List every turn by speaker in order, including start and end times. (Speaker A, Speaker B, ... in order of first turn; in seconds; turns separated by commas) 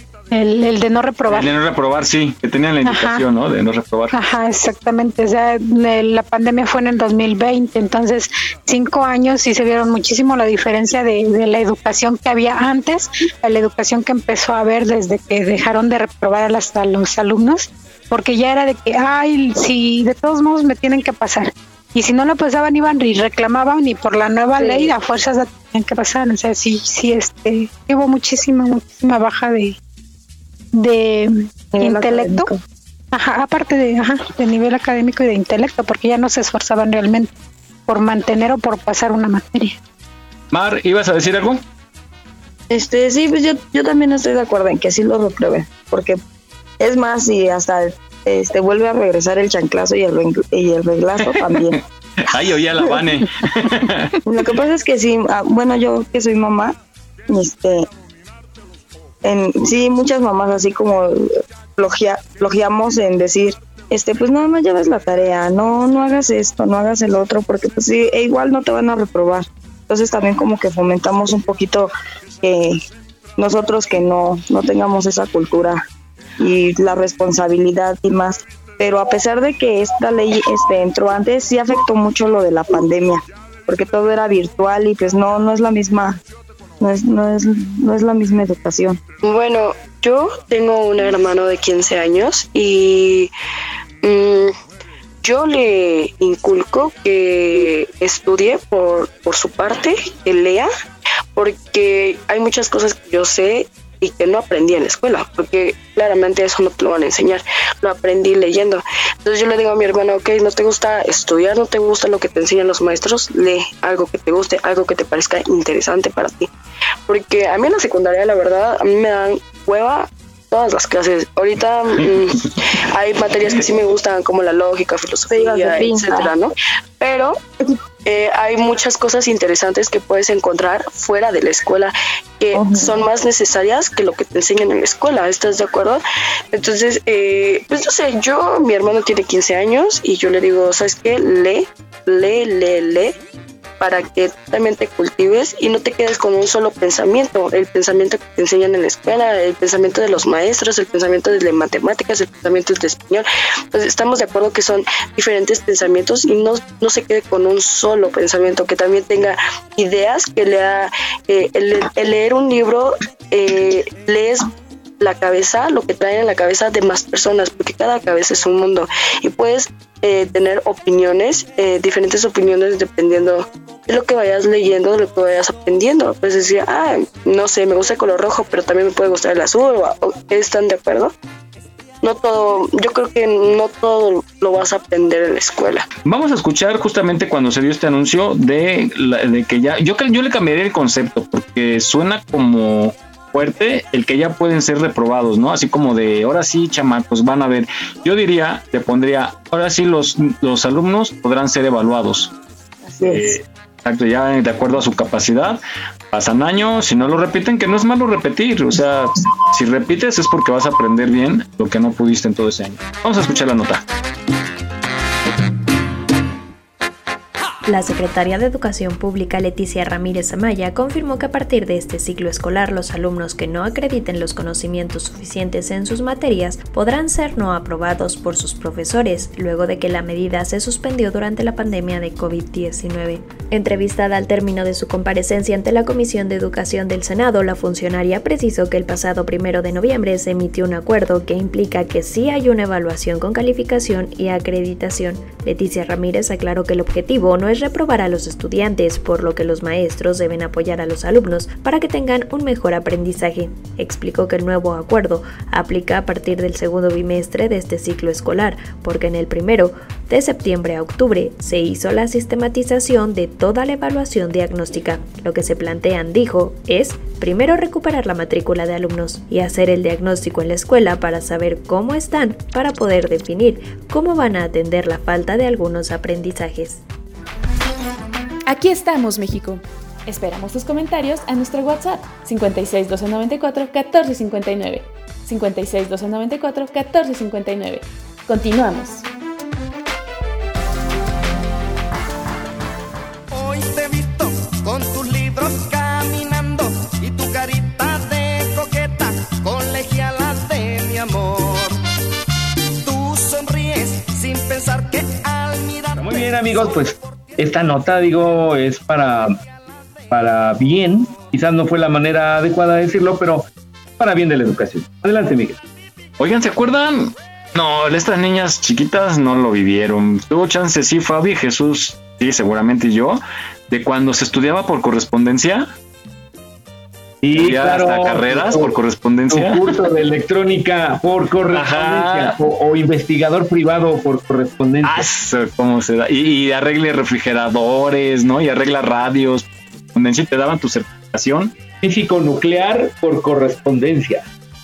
Speaker A: 0.3-1.5, Speaker B: 1.3-4.1, Speaker A: 2.9-3.2, Speaker A: 4.1-29.7, Speaker A: 30.7-32.5, Speaker C: 31.7-32.6, Speaker A: 33.1-37.3, Speaker A: 37.9-39.7, Speaker B: 40.5-41.6, Speaker C: 42.7-46.2, Speaker C: 46.8-51.8, Speaker B: 51.3-54.1, Speaker C: 54.3-56.7, Speaker C: 57.3-57.9, Speaker C: 59.2-71.9, Speaker C: 72.4-72.8, Speaker C: 73.4-75.8, Speaker C: 76.4-86.2, Speaker C: 86.8-89.0, Speaker D: 89.2-93.3, Speaker D: 94.0-94.5, Speaker D: 95.2-100.7, Speaker D: 101.4-116.5, Speaker D: 117.1-127.4, Speaker C: 125.3-126.3, Speaker D: 128.1-143.1, Speaker C: 132.6-132.9, Speaker D: 143.8-164.5, Speaker D: 165.0-181.1, Speaker D: 182.0-185.9, Speaker B: 186.1-202.3, Speaker C: 202.8-203.4, Speaker B: 203.1-205.6, Speaker B: 206.1-213.8, Speaker E: 217.7-276.8, Speaker F: 278.5-289.1, Speaker G: 293.3-301.8, Speaker G: 302.8-307.1, Speaker H: 305.9-309.4, Speaker H: 310.1-313.4, Speaker H: 314.0-315.6, Speaker B: 316.2-325.7, Speaker H: 327.2-328.7, Speaker B: 327.4-329.8, Speaker H: 329.3-335.0, Speaker B: 331.5-332.4, Speaker B: 334.8-341.5, Speaker H: 341.8-344.2